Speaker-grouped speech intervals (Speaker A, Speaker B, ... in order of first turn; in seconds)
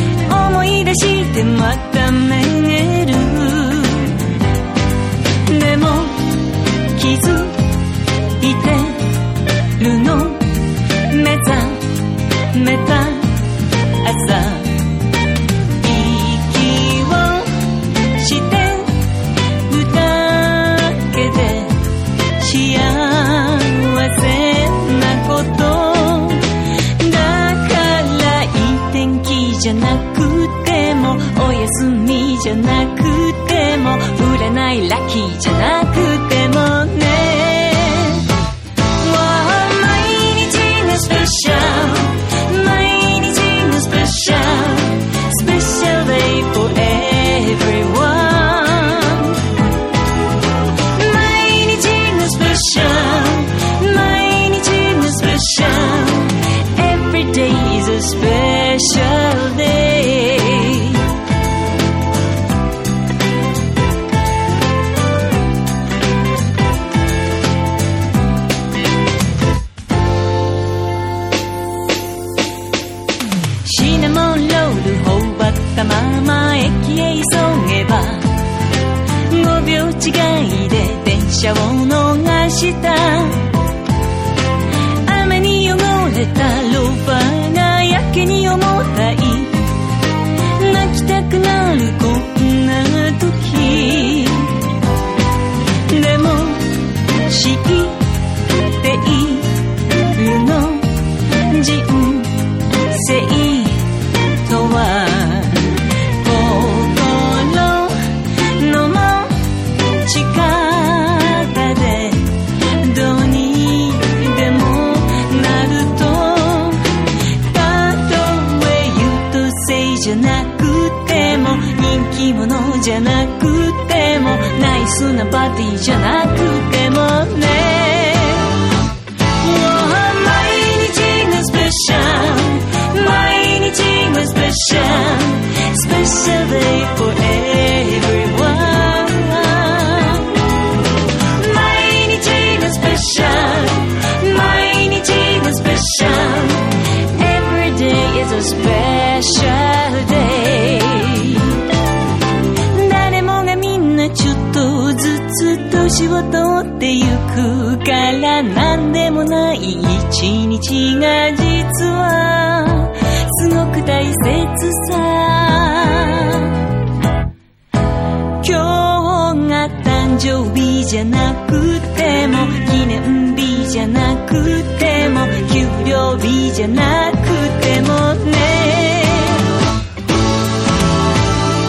Speaker A: 0.2-4.2, 5.4-7.8, 8.4-9.1, 9.8-13.5, 14.0-14.9, 15.8-38.2, 38.9-49.4, 50.9-61.0, 73.6-78.4, 79.2-83.5, 85.0-89.7, 90.5-94.6, 95.9-128.6, 129.4-140.4, 141.2-151.6, 152.7-166.6, 168.4-179.5